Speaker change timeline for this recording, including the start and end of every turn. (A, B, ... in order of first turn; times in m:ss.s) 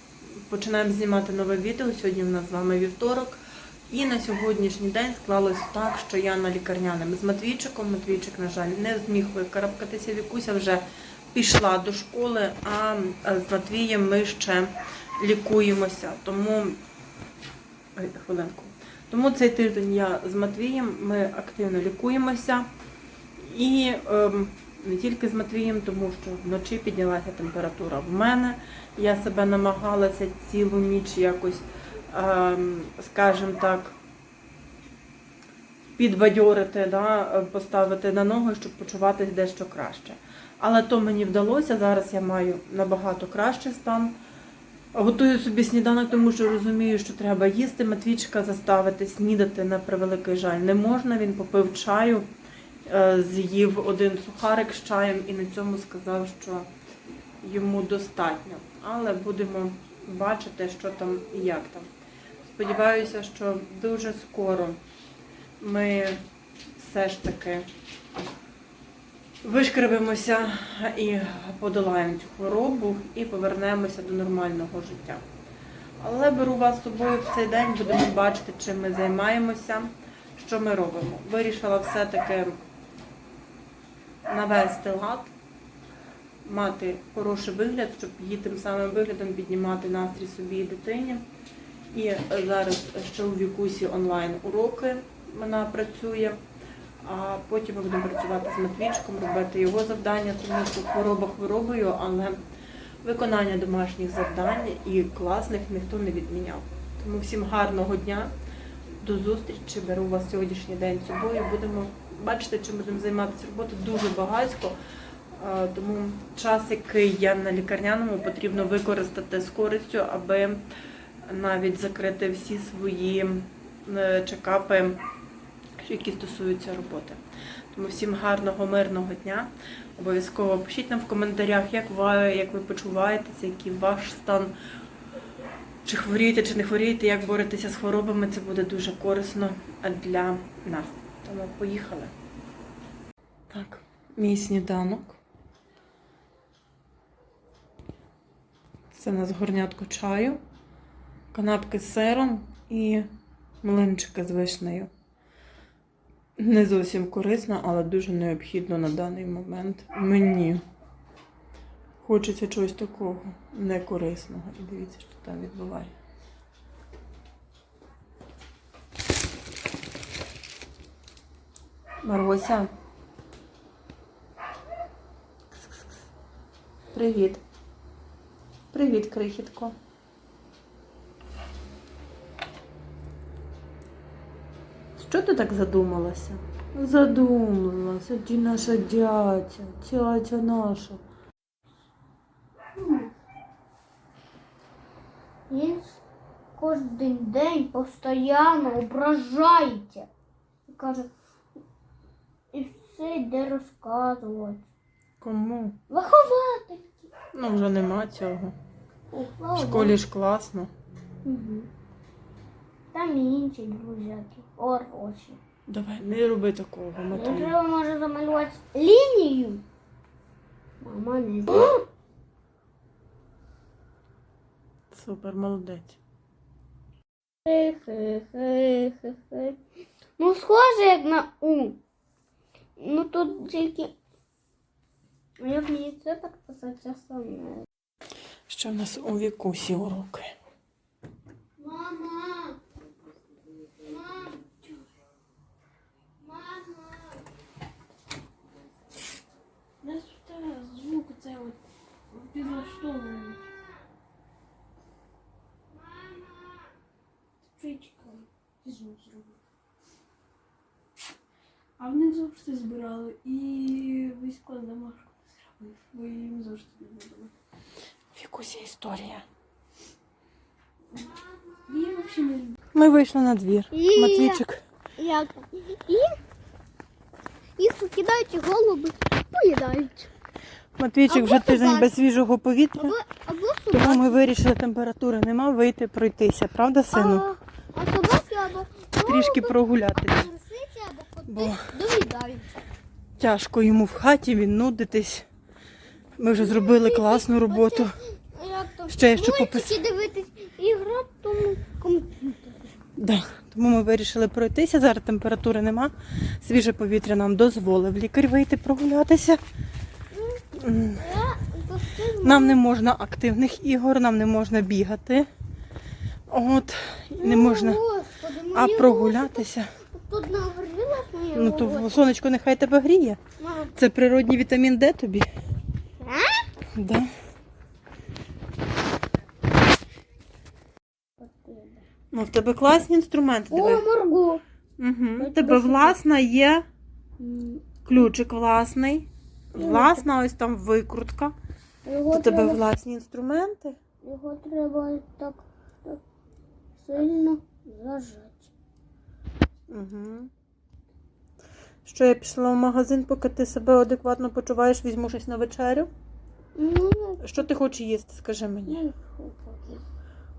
0:00.4-0:03.4 A
0:03.9-0:16.8 A
0:17.9-0:22.7 A
0:23.4-0:34.0 A
0:36.0-0:44.2 A
0:44.9-0:52.2 A
0:52.9-0:56.7 A
0:57.4-1:01.9 A
1:02.4-1:04.8 A
1:05.6-1:06.2 A
1:06.8-1:07.6 A
1:09.4-1:15.2 A
1:16.0-1:22.6 A
1:24.2-1:25.3 A
1:26.4-1:31.2 A
1:31.9-1:36.4 A
1:37.0-1:42.4 A
1:43.0-1:48.3 A
1:49.0-1:54.7 A
1:55.3-2:00.6 A
2:01.3-2:05.0 A
2:05.8-2:07.2 A
2:07.7-2:14.5 A
2:15.8-2:22.1 A
2:23.5-2:25.2 A
2:28.9-2:30.4 A
2:31.3-2:33.1 A
2:33.6-2:34.9 A
2:36.4-2:40.6 A
2:42.0-2:45.9 A
2:52.0-2:52.7 A
2:55.5-2:55.9 A
2:56.9-2:57.4 A
2:58.7-2:59.7 A
3:05.0-3:11.0 A
3:12.7-3:13.1 B
3:15.5-3:16.0 B
3:16.5-3:20.1 B
3:20.7-3:21.1 B
3:22.5-3:24.6 B
3:25.2-3:25.8 A
3:25.9-3:27.1 B
3:27.3-3:28.5 A
3:29.1-3:30.0 B
3:29.6-3:30.7 A
3:31.2-3:31.7 B
3:32.9-3:35.4 B
3:35.7-3:37.6 A
3:37.1-3:39.6 B
3:40.8-3:41.8 B
3:44.9-3:46.0 A
3:47.4-3:49.6 B
3:50.2-3:51.8 B
3:52.8-3:53.9 B
3:55.4-3:57.7 B
3:58.5-4:00.3 A
4:01.6-4:02.6 B
4:03.7-4:04.6 B
4:06.2-4:07.2 B
4:09.8-4:11.6 B
4:12.2-4:13.6 B
4:12.2-4:13.2 C
4:15.7-4:16.7 B
4:17.5-4:19.3 B
4:21.8-4:25.0 C
4:21.8-4:25.2 B
4:25.6-4:27.3 C
4:28.1-4:29.2 A
4:31.7-4:32.4 B
4:31.8-4:32.5 C
4:32.7-4:34.6 A
4:33.7-4:34.4 B
4:35.0-4:36.2 B
4:37.6-4:40.1 B
4:40.8-4:43.0 A
4:41.1-4:41.9 B
4:42.8-4:44.2 B
4:43.7-4:47.2 A
4:46.9-4:52.5 B
4:49.0-4:50.3 A
4:51.2-4:51.6 A
4:53.2-4:55.3 A
4:56.2-4:57.9 A
4:56.3-5:02.6 B
4:58.9-4:59.8 A
5:03.0-5:09.4 A
5:10.1-5:10.4 B
5:10.5-5:11.0 A
5:11.0-5:12.6 B
5:12.2-5:15.3 A
5:16.3-5:17.8 A
5:17.2-5:22.0 B
5:18.5-5:19.7 A
5:21.3-5:23.2 A
5:23.4-5:23.7 B
5:23.8-5:25.3 A
5:26.0-5:26.4 B
5:26.7-5:27.1 A
5:31.2-5:31.8 B
5:32.1-5:33.8 A
5:33.5-5:34.4 B
5:34.8-5:36.6 A
5:35.2-5:36.0 B
5:37.2-5:37.7 B
5:37.8-5:41.3 A
5:39.6-5:40.0 B
5:41.8-5:42.6 B
5:42.1-5:43.8 A
5:44.0-5:46.0 B
5:46.8-5:48.5 B
5:49.7-5:50.3 A
5:51.8-5:55.9 A
5:56.6-5:57.2 B
5:57.2-5:58.8 A
5:58.7-5:59.8 B